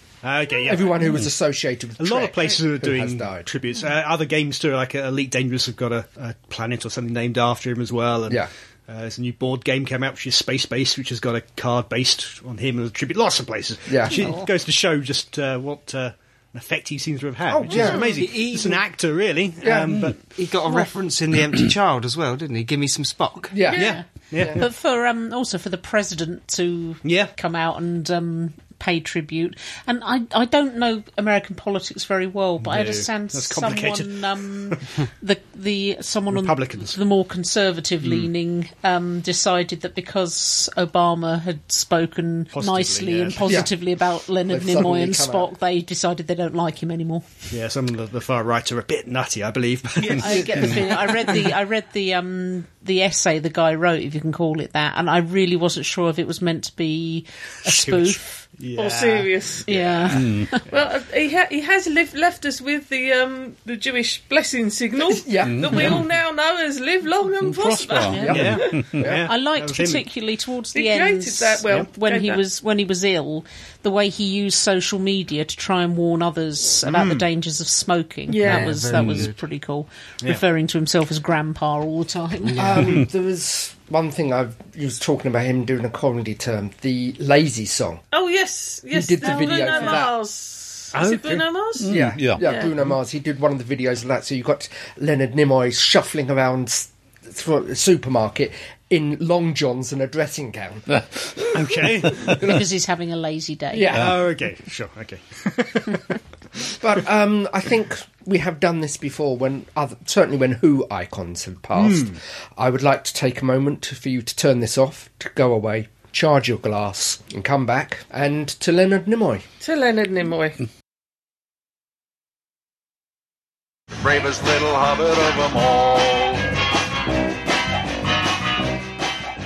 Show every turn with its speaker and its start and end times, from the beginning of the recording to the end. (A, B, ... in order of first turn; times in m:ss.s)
0:00.2-0:01.2 A
0:00.6-0:03.5 B
0:02.0-0:20.2 A
0:13.9-0:14.3 B
0:14.2-0:14.5 C
0:17.5-0:18.2 B
0:18.2-0:18.8 D
0:19.6-0:20.1 B
0:20.3-0:23.6 D
0:23.5-0:24.6 B
0:23.7-0:47.3 C
0:23.8-0:24.7 A
0:27.0-0:27.3 A
0:32.6-0:34.8 A
0:36.3-0:37.0 A
0:42.5-0:43.7 A
0:43.5-0:43.7 B
0:44.5-0:45.5 B
0:47.5-0:51.3 A
0:50.1-0:58.4 C
0:57.6-1:00.2 A
0:58.8-0:59.7 E
0:59.7-1:00.6 C
1:00.1-1:00.6 F
1:00.7-1:08.8 E
1:05.0-1:05.9 B
1:05.4-1:06.0 F
1:07.4-1:09.0 F
1:08.1-1:08.4 C
1:08.2-1:09.2 B
1:08.2-1:10.1 A
1:09.2-1:23.0 C
1:10.7-1:12.4 E
1:16.8-1:17.3 A
1:18.3-1:18.8 E
1:18.4-1:19.4 D
1:19.0-1:19.2 F
1:22.5-1:22.9 D
1:22.6-1:28.0 B
1:28.1-1:32.7 E
1:28.9-1:30.1 B
1:29.2-1:30.0 C
1:30.9-1:31.5 A
1:31.8-1:32.5 F
1:31.9-1:41.1 B
1:41.5-1:42.4 A
1:42.3-1:42.6 B
1:42.4-1:44.0 C
1:43.7-1:44.2 B
1:43.9-1:46.1 A
1:46.8-1:59.4 B
1:51.8-1:52.2 A
1:59.6-2:00.6 E
2:04.1-2:05.8 F